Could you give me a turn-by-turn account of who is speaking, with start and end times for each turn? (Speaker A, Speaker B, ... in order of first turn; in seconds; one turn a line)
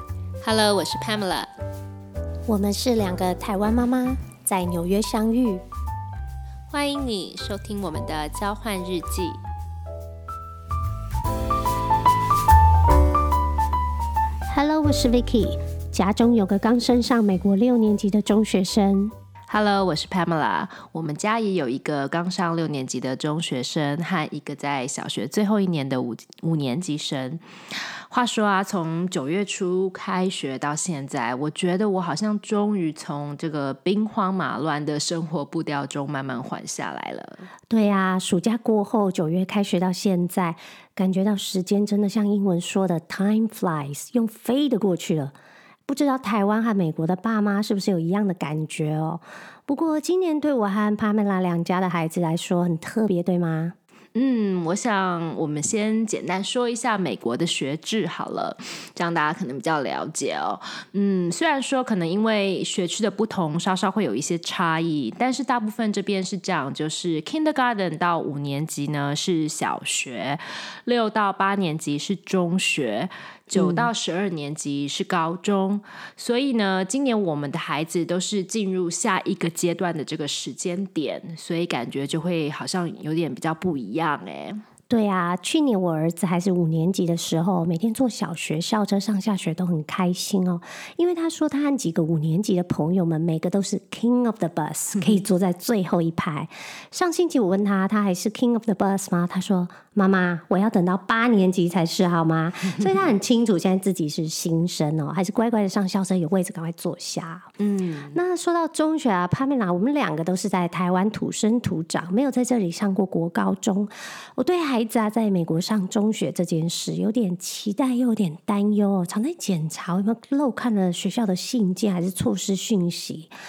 Speaker A: 0.4-1.5
Speaker B: 2.5-5.6
Speaker A: 6.7-9.4
Speaker B: 14.5-19.1
Speaker A: 19.5-27.4
Speaker A: 28.1-37.5
Speaker B: 37.7-45.3
Speaker B: 45.9-53.8
Speaker A: 54.1-84.6
Speaker B: 73.5-73.9
Speaker B: 84.9-107.5
Speaker A: 107.6-108.2
Speaker B: 108.1-123.3